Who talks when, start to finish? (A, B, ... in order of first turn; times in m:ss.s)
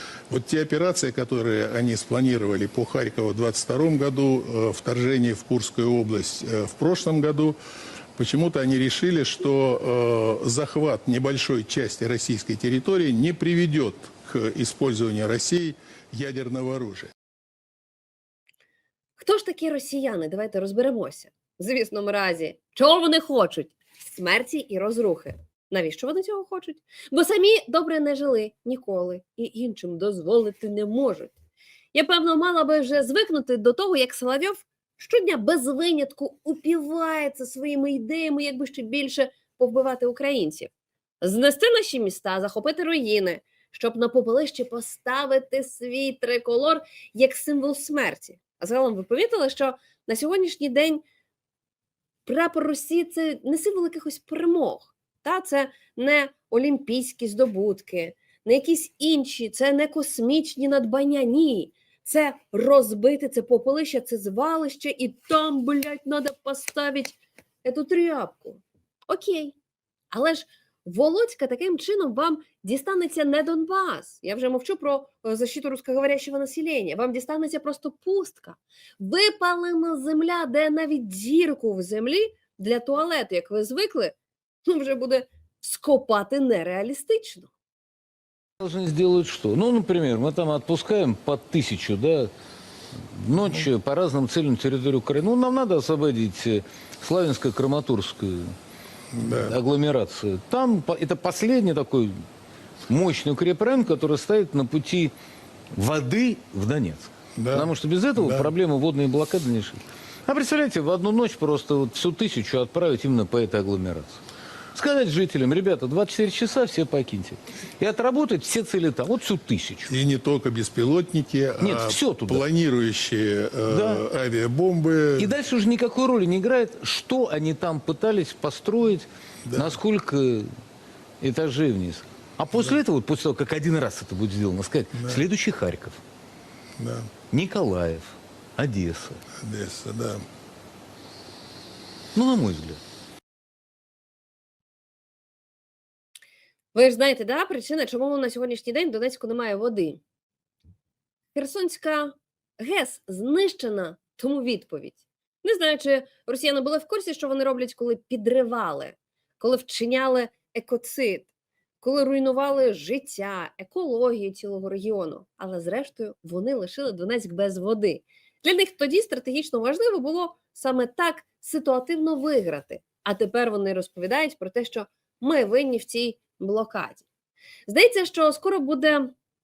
0:00.3-0:07.6 A
0:08.2-0:17.1 A
0:19.2-0:31.4 B
0:31.9-0:51.0 B
0:52.2-1:09.5 B
1:10.1-1:27.5 B
1:28.6-1:32.3 C
1:33.1-1:38.5 C
1:39.1-1:39.5 A
1:39.2-1:42.2 C
1:42.9-1:45.1 C
1:45.7-1:54.2 C
1:47.4-1:48.5 A
1:54.7-1:59.9 C
1:59.9-2:05.3 A
2:01.6-2:02.4 C
2:03.7-2:04.0 C
2:05.2-2:10.5 C
2:09.5-2:09.7 A
2:11.2-2:16.0 C
2:16.8-2:17.1 A
2:17.3-2:19.2 C
2:19.4-2:20.2 A
2:22.1-2:22.8 C
2:26.7-2:30.0 B
2:31.3-2:41.3 B
2:41.8-2:57.0 B
2:57.7-2:59.1 B